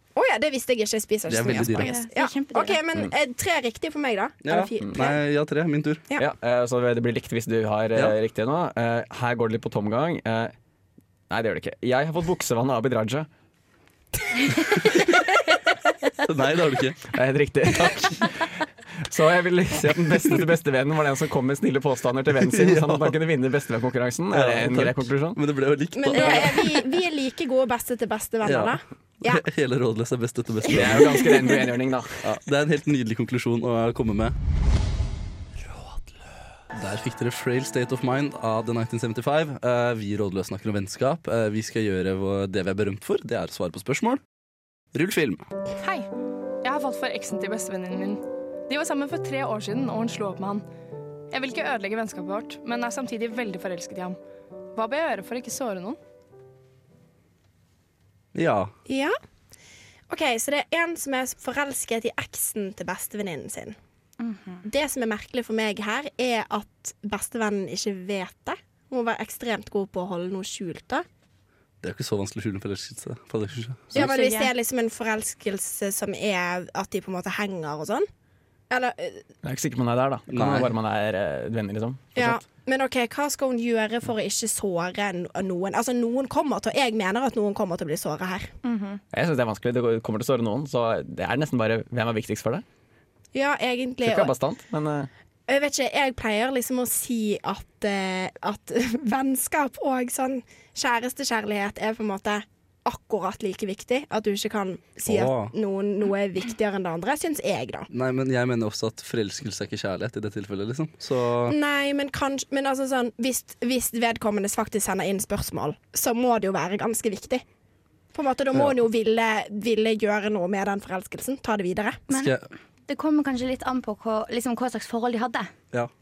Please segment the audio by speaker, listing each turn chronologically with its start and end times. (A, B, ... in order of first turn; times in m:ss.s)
0:00.2-0:05.2 A
0:01.3-0:01.9 B
0:01.7-0:02.8 C
0:04.4-0:06.0 B
0:06.2-0:10.5 D
0:11.3-0:13.3 D
0:16.2-0:17.0 B
0:17.1-0:18.5 D
0:19.1-0:25.4 D
0:22.5-0:23.1 B
0:24.3-0:26.6 B
0:26.0-0:29.4 A
0:28.4-0:31.3 B
0:30.7-0:32.3 D
0:32.2-0:34.4 B
0:36.7-0:44.2 B
0:44.9-0:45.4 B
0:46.6-0:50.6 E
0:51.3-0:54.2 E
0:54.8-0:56.0 E
0:58.3-0:58.7 B
0:58.9-0:59.1 A
1:00.1-1:03.8 A
1:04.2-1:04.6 C
1:04.6-1:11.0 A
1:11.8-1:14.1 B
1:13.9-1:14.5 C
1:13.9-1:18.1 A
1:18.7-1:19.2 A
1:19.4-1:22.4 D
1:20.3-1:20.7 B
1:22.2-1:28.5 A
1:28.6-1:29.0 C
1:29.1-1:32.6 D
1:33.3-1:34.3 A
1:34.0-1:35.1 D
1:35.5-1:47.9 A
1:45.0-1:45.5 B
1:47.9-1:51.6 B
1:51.5-1:57.4 A
1:58.1-2:02.0 A
2:02.1-2:02.4 B
2:02.9-2:05.5 C